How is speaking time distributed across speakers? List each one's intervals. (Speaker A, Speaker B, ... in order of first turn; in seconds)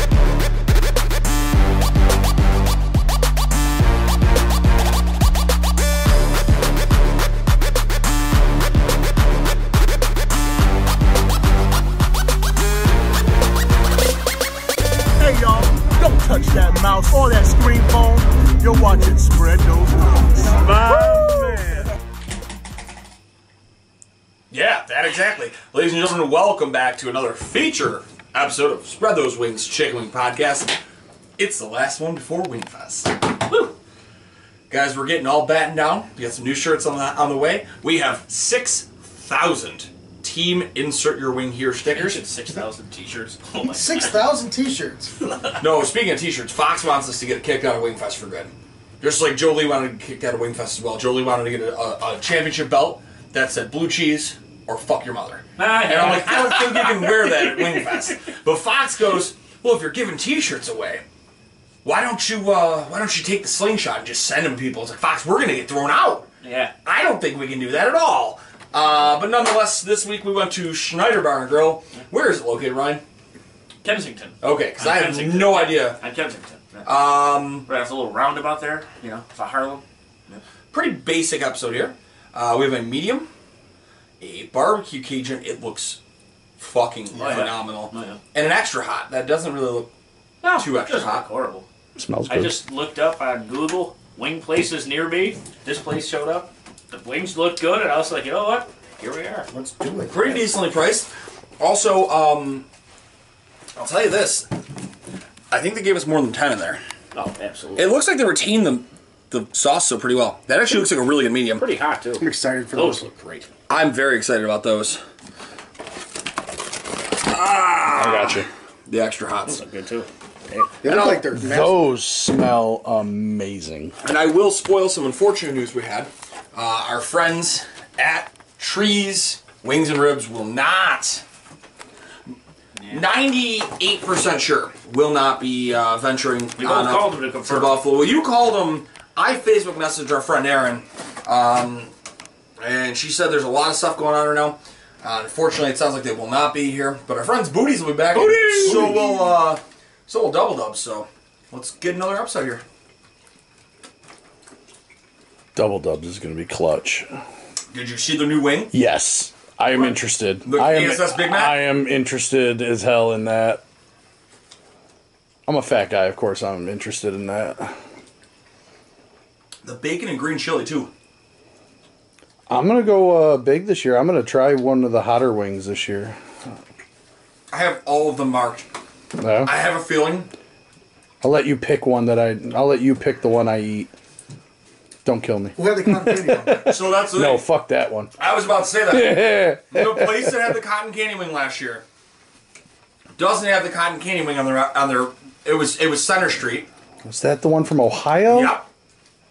Speaker A: 15.2-21.9
Speaker B: 24.5-30.8, 31.4-33.2, 34.7-42.2, 45.6-61.0, 61.8-66.3, 66.8-73.0, 74.4-76.0, 76.8-77.7, 80.7-83.3, 84.2-86.0, 86.6-89.9, 90.5-91.3, 100.1-102.7, 103.8-104.5, 105.5-106.8, 107.8-111.7, 113.7-115.0, 117.2-119.6, 120.9-121.3, 124.0-131.2, 132.9-141.9, 142.6-152.6, 157.7-158.7, 160.4-161.6, 169.6-170.9, 177.5-178.7, 179.4-180.3, 186.6-187.4, 188.2-191.8, 193.2-196.7, 198.3-198.7
Speaker C: 33.5-33.7, 41.9-44.2, 45.2-45.6, 55.6-58.1, 66.4-66.7, 73.8-77.0, 77.5-80.4, 87.1-88.2, 90.4-91.7, 92.3-99.5, 107.1-107.9, 111.5-113.5, 119.5-120.7, 132.8-133.1, 136.6-137.8, 148.3-149.0
Speaker D: 43.6-45.1, 99.5-100.5, 112.2-113.1, 120.8-121.9, 185.6-186.7
Speaker E: 92.0-92.5, 117.9-118.5, 121.3-123.9, 148.2-149.0, 155.5-157.1, 158.7-163.6, 165.5-167.8, 172.5-176.2, 179.2-179.5, 181.2-183.9, 185.0-188.1, 188.9-190.2, 197.0-198.6